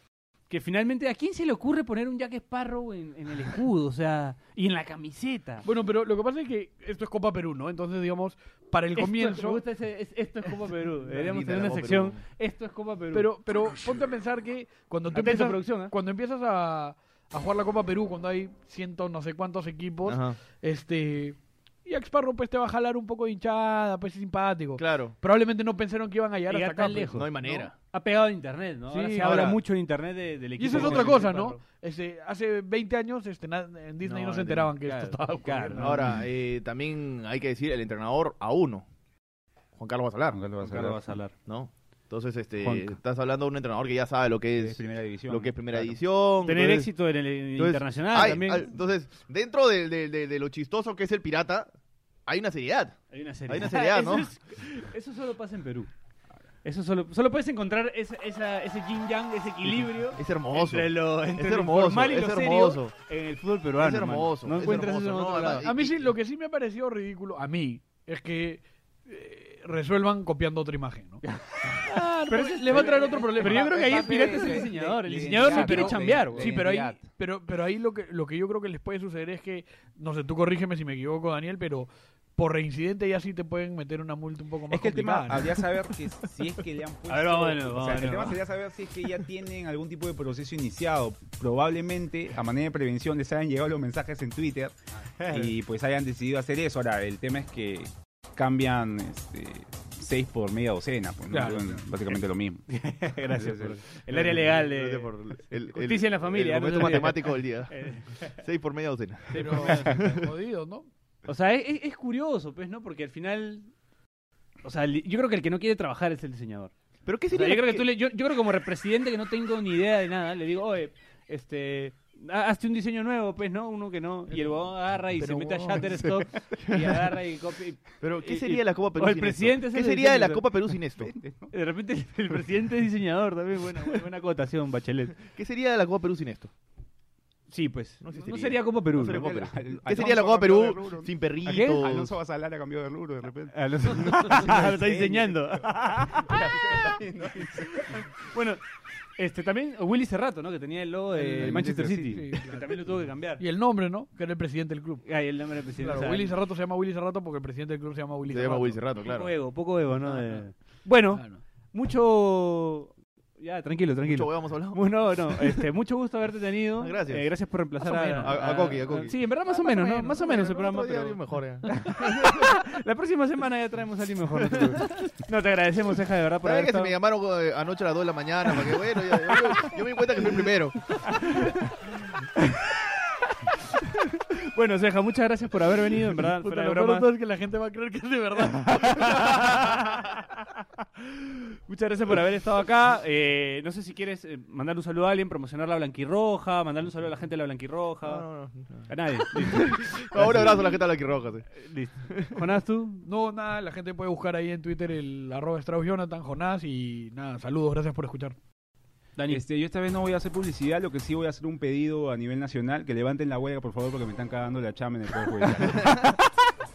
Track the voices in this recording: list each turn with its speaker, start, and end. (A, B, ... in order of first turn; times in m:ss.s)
0:00.5-0:05.6 A
0:05.6-0:09.6 B
0:08.9-0:13.3 A
0:11.1-0:12.2 C
0:13.1-0:27.7 B
0:15.1-0:15.9 A
0:20.0-0:20.4 C
0:24.8-0:25.2 C
0:26.5-0:31.6 A
0:27.1-0:27.7 C
0:28.9-0:29.6 B
0:29.2-0:29.6 C
0:30.6-0:36.2 B
0:30.7-0:31.1 C
0:34.0-0:36.0 A
0:35.8-0:38.8 C
0:39.8-0:40.4 C
0:40.3-0:41.2 D
0:40.6-0:41.3 A
0:41.5-0:46.9 C
0:42.6-0:42.9 A
0:44.6-0:46.0 D
0:46.4-0:48.7 A
0:47.5-0:51.7 C
0:52.3-0:54.3 C
0:53.1-0:55.9 A
0:56.6-1:05.7 A
1:00.1-1:02.9 C
1:03.8-1:06.1 C
1:05.6-1:11.2 B
1:11.2-1:16.6 A
1:11.8-1:14.7 B
1:13.4-1:17.0 D
1:15.4-1:25.6 B
1:24.7-1:34.7 D
1:27.1-1:28.4 A
1:35.2-1:35.5 A
1:35.3-1:42.7 D
1:41.3-1:41.7 B
1:42.0-1:45.1 A
1:43.3-1:43.8 D
1:44.1-1:50.2 C
1:45.7-1:48.3 A
1:49.3-1:50.1 A
1:49.3-1:50.9 B
1:51.2-1:53.7 A
1:54.6-1:56.7 A
1:57.0-1:57.9 C
1:57.3-2:10.4 A
2:04.3-2:04.6 B
2:05.2-2:05.9 B
2:06.5-2:07.0 C
2:08.0-2:11.1 C
2:11.0-2:11.5 D
2:11.5-2:15.1 A
2:15.2-2:16.5 C
2:17.5-2:19.5 A
2:18.0-2:22.1 C
2:19.0-2:28.0 D
2:21.5-2:21.8 A
2:23.5-2:28.6 A
2:29.2-2:33.4 A
2:31.3-2:32.8 B
2:31.4-2:32.3 D
2:33.4-2:35.0 B
2:35.0-2:36.3 A
2:35.8-2:38.8 B
2:38.3-2:39.3 C
2:39.0-2:51.2 A
2:40.0-2:40.4 B
2:41.1-2:41.4 B
2:44.0-2:45.3 C
2:46.8-2:47.3 C
2:47.8-2:48.3 B
2:48.2-2:49.3 C
2:49.5-2:50.2 B
2:50.0-2:52.5 C
2:51.7-2:56.9 A
2:54.4-2:54.8 C
2:56.4-3:00.9 C
3:01.1-3:01.4 A
3:04.5-3:07.1 A
3:06.4-3:09.6 B
3:08.6-3:10.1 A
3:11.7-3:18.2 A
3:18.0-3:21.5 C
3:18.9-3:20.6 A
3:21.6-3:23.0 A
3:22.1-3:22.4 C
3:23.0-3:28.4 B
3:29.2-3:29.4 A
3:29.3-3:36.1 D